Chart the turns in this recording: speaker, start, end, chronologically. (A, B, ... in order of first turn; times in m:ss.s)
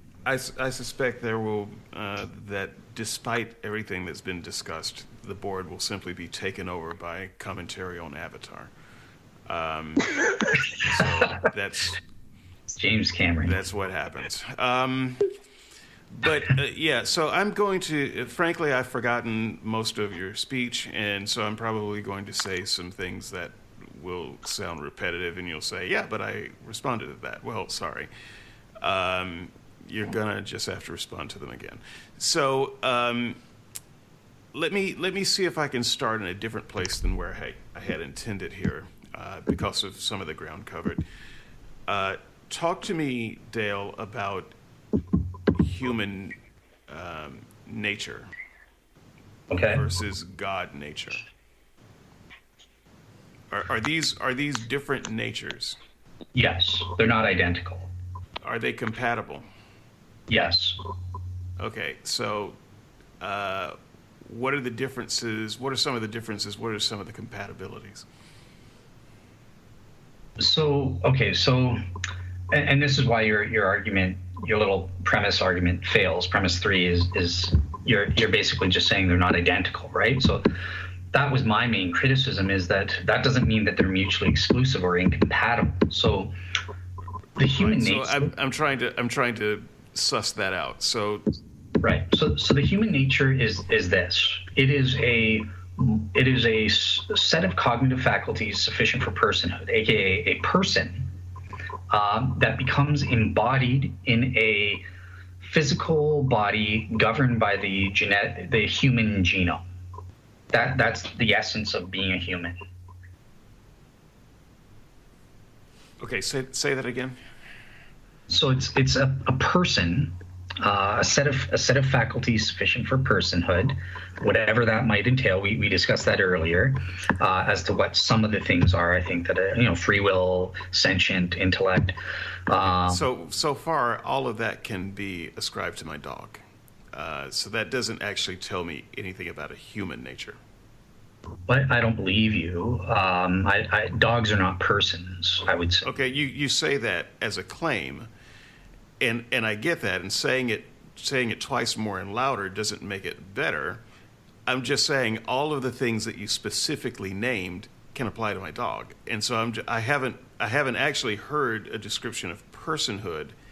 0:00.2-0:08.7 A
0:09.4-0:12.0 A
0:12.7-0:13.6 B
0:13.4-0:15.3 A
0:16.1-0:28.1 A
0:28.8-0:33.4 A
0:34.5-0:41.0 A
0:41.9-0:44.5 A
0:45.6-0:46.4 A
0:46.9-0:48.3 A
0:49.5-0:49.8 B
0:49.7-0:51.2 A
0:53.5-0:55.8 A
0:56.3-0:57.9 B
0:58.4-0:59.4 A
1:00.3-1:00.8 B
1:01.6-1:02.6 A
1:03.2-1:08.0 A
1:10.4-1:11.8 B
1:12.5-1:20.4 B
1:21.1-1:26.3 B
1:27.4-1:28.3 B
1:27.5-1:31.2 A
1:31.8-1:41.1 B
1:41.9-1:44.8 B
1:45.4-1:49.6 B
1:50.5-1:52.6 B
1:56.0-1:57.2 A
1:58.3-2:12.0 B
2:12.5-2:13.0 B
2:12.8-2:16.4 A
2:16.9-2:20.4 A
2:21.5-2:25.8 B
2:25.8-2:28.1 A
2:29.0-2:33.8 A
2:34.4-2:43.3 A